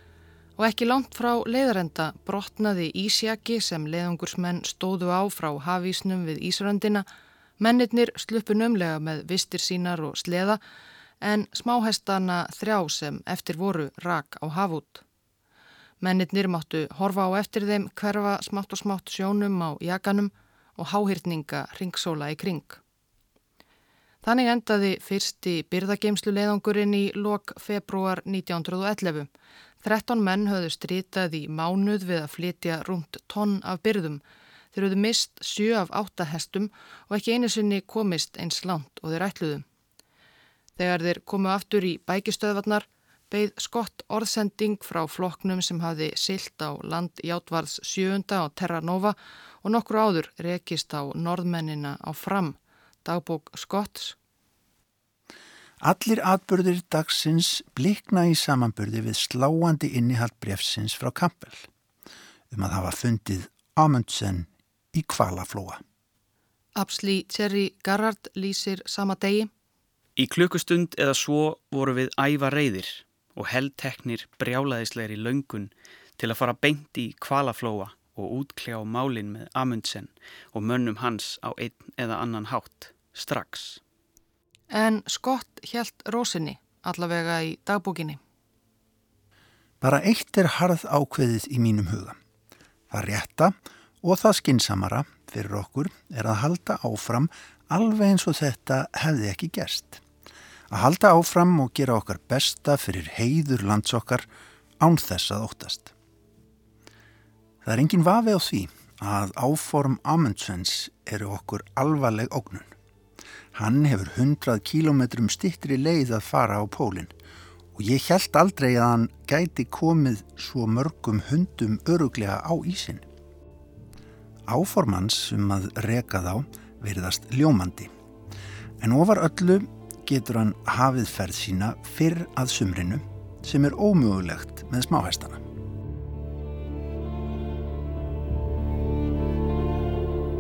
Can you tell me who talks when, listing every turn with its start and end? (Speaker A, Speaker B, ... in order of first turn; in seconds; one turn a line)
Speaker A: 0.6-7.0
Speaker A: 7.6-10.6
Speaker A: 11.2-15.0
Speaker A: 16.0-22.8
Speaker A: 24.2-29.3
Speaker A: 29.8-34.2
Speaker A: 34.7-39.6
Speaker A: 40.8-54.1
Speaker B: 55.8-61.7
Speaker B: 62.5-65.8
Speaker A: 66.8-69.5
Speaker C: 70.2-83.8
Speaker A: 84.7-88.2
Speaker B: 89.8-92.2
Speaker B: 92.9-100.0
Speaker B: 100.7-104.3
Speaker B: 104.8-105.9
Speaker B: 107.6-112.7
Speaker B: 113.5-117.1
Speaker B: 117.7-123.0
Speaker B: 124.5-127.9
Speaker B: 128.8-135.4